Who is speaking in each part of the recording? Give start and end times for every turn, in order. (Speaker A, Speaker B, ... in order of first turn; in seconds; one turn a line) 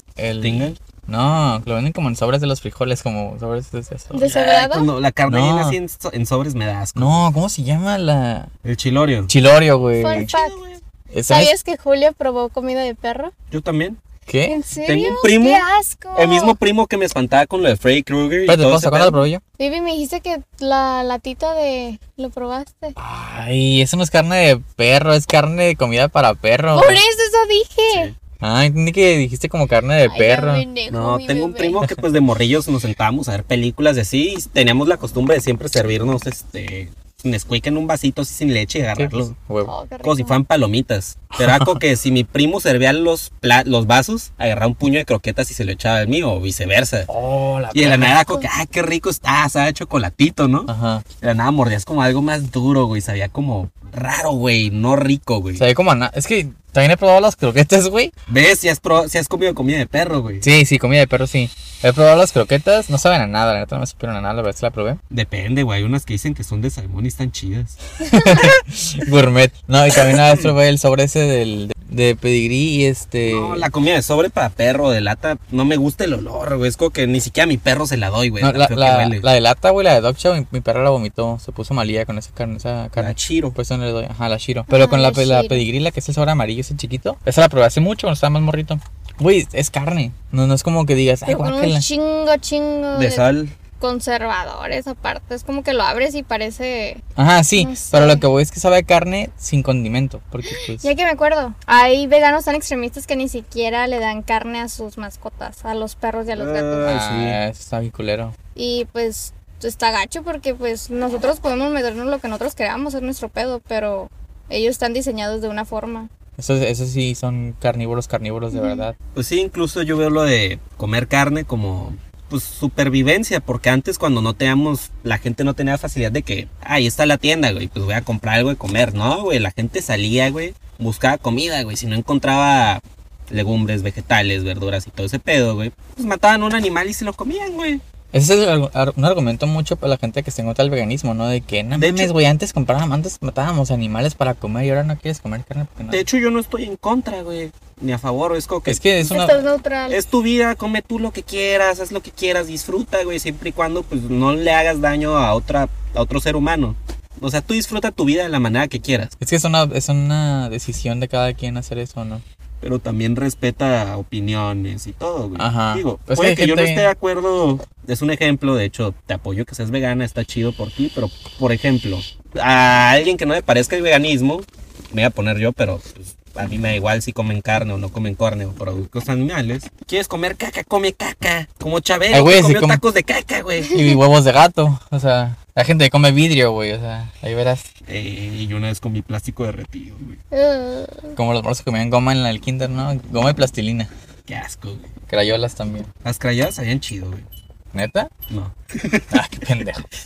Speaker A: 0.2-4.3
Speaker B: 0.4-0.8
Speaker C: 4.1-4.9
Speaker B: 4.2-7.2
Speaker A: 5.3-5.8
Speaker A: 7.0-8.5
Speaker B: 8.7-9.3
Speaker A: 9.3-10.3
Speaker C: 10.0-10.6
Speaker B: 10.1-10.8
Speaker A: 11.1-11.5
Speaker C: 11.3-13.3
Speaker B: 13.5-14.0
Speaker A: 14.3-14.6
Speaker C: 14.4-16.6
Speaker B: 14.8-15.6
Speaker B: 16.1-19.2
Speaker A: 18.5-19.4
Speaker C: 19.6-23.0
Speaker A: 23.0-27.0
Speaker C: 26.7-28.1
Speaker B: 27.9-28.1
Speaker A: 28.4-30.6
Speaker C: 30.1-31.8
Speaker B: 30.9-39.3
Speaker A: 39.0-39.7
Speaker C: 39.7-40.4
Speaker B: 40.0-47.1
Speaker A: 41.4-41.8
Speaker A: 47.1-48.4
Speaker B: 47.7-55.6
Speaker A: 50.7-51.0
Speaker A: 55.6-58.1
Speaker B: 58.3-60.5
Speaker A: 60.4-65.0
Speaker B: 65.1-67.8
Speaker A: 68.0-73.7
Speaker B: 70.0-70.5
Speaker B: 73.2-79.2
Speaker A: 78.4-91.8
Speaker B: 83.0-83.6
Speaker C: 84.7-85.7
Speaker C: 91.3-93.3
Speaker B: 92.9-93.5
Speaker C: 93.8-97.0
Speaker A: 97.2-100.9
Speaker C: 97.6-98.3
Speaker C: 100.5-107.0
Speaker B: 106.3-107.4
Speaker A: 106.8-108.4
Speaker C: 108.5-116.1
Speaker A: 116.4-119.0
Speaker C: 118.5-118.8
Speaker B: 119.2-137.8
Speaker A: 138.1-146.0
Speaker B: 141.8-142.1
Speaker B: 145.9-148.8
Speaker A: 148.7-149.4
Speaker C: 149.0-150.0
Speaker B: 149.9-159.1
Speaker A: 159.2-162.2
Speaker B: 162.6-183.8
Speaker A: 165.4-166.9
Speaker A: 182.1-182.8
Speaker C: 183.7-184.0
Speaker A: 183.7-187.7
Speaker B: 187.9-190.2
Speaker C: 190.3-191.2
Speaker A: 191.1-193.9
Speaker B: 194.3-194.9
Speaker A: 195.1-195.9
Speaker B: 196.0-197.3
Speaker A: 197.7-198.1
Speaker B: 198.3-199.2
Speaker A: 199.1-199.9